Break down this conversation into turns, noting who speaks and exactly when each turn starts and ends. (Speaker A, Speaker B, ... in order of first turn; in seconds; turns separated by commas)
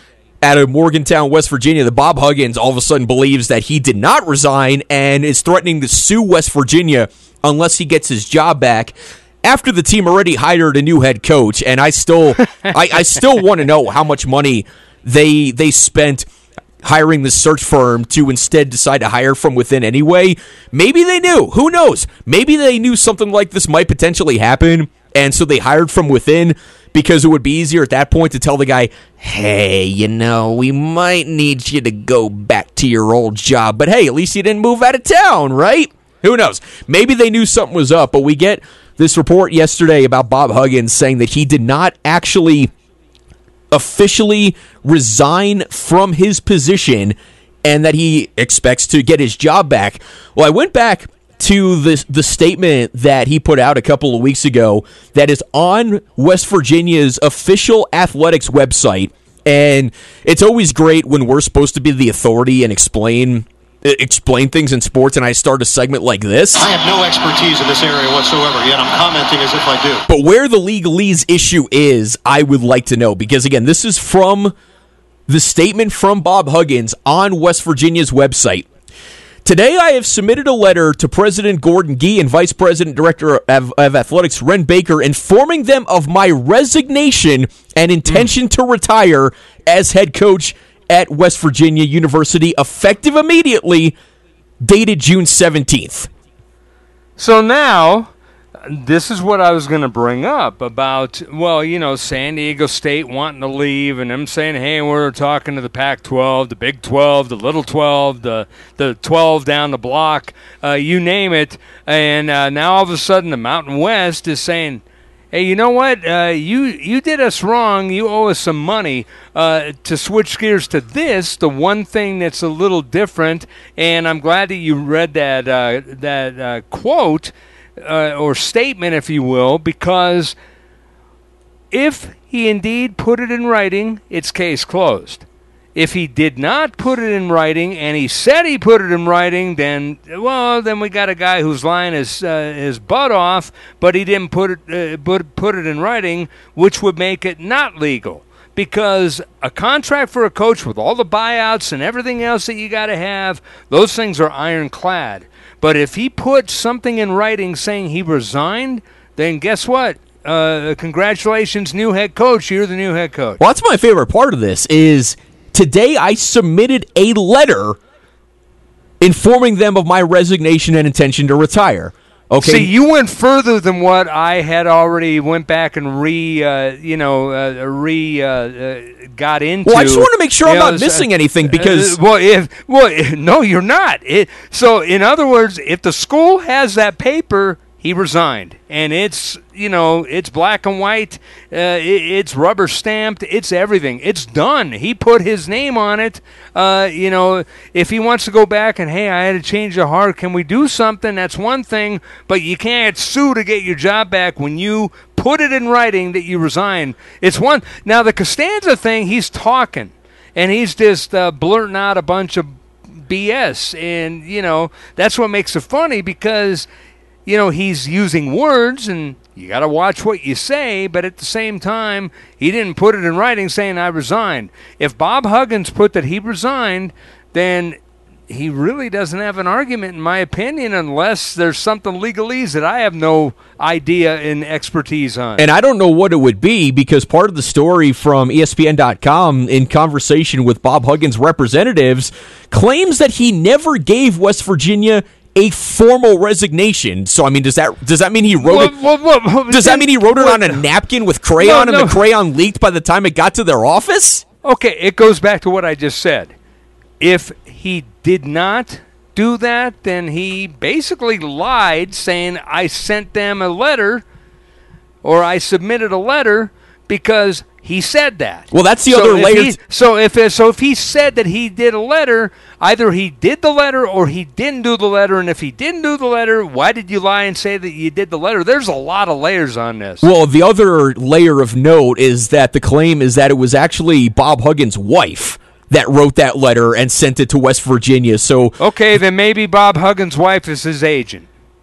Speaker A: 0.4-16.3, Speaker A: 16.8-42.7, Speaker A: 43.7-66.7, Speaker B: 66.6-70.0, Speaker A: 70.1-74.5, Speaker A: 75.3-78.7, Speaker A: 79.4-93.9, Speaker A: 94.6-96.1, Speaker C: 97.2-98.1, Speaker C: 98.6-130.3, Speaker C: 131.7-163.4, Speaker A: 163.4-167.8, Speaker A: 169.0-172.7, Speaker C: 172.4-212.5, Speaker A: 179.6-182.0, Speaker C: 213.0-216.7, Speaker C: 217.2-227.8, Speaker C: 228.3-235.4, Speaker A: 235.4-248.7, Speaker C: 248.4-250.7, Speaker A: 249.5-254.2, Speaker C: 251.4-252.0, Speaker C: 254.4-256.3, Speaker C: 257.0-264.0, Speaker C: 265.0-280.1, Speaker A: 268.5-269.5, Speaker A: 280.0-288.6, Speaker C: 288.6-291.3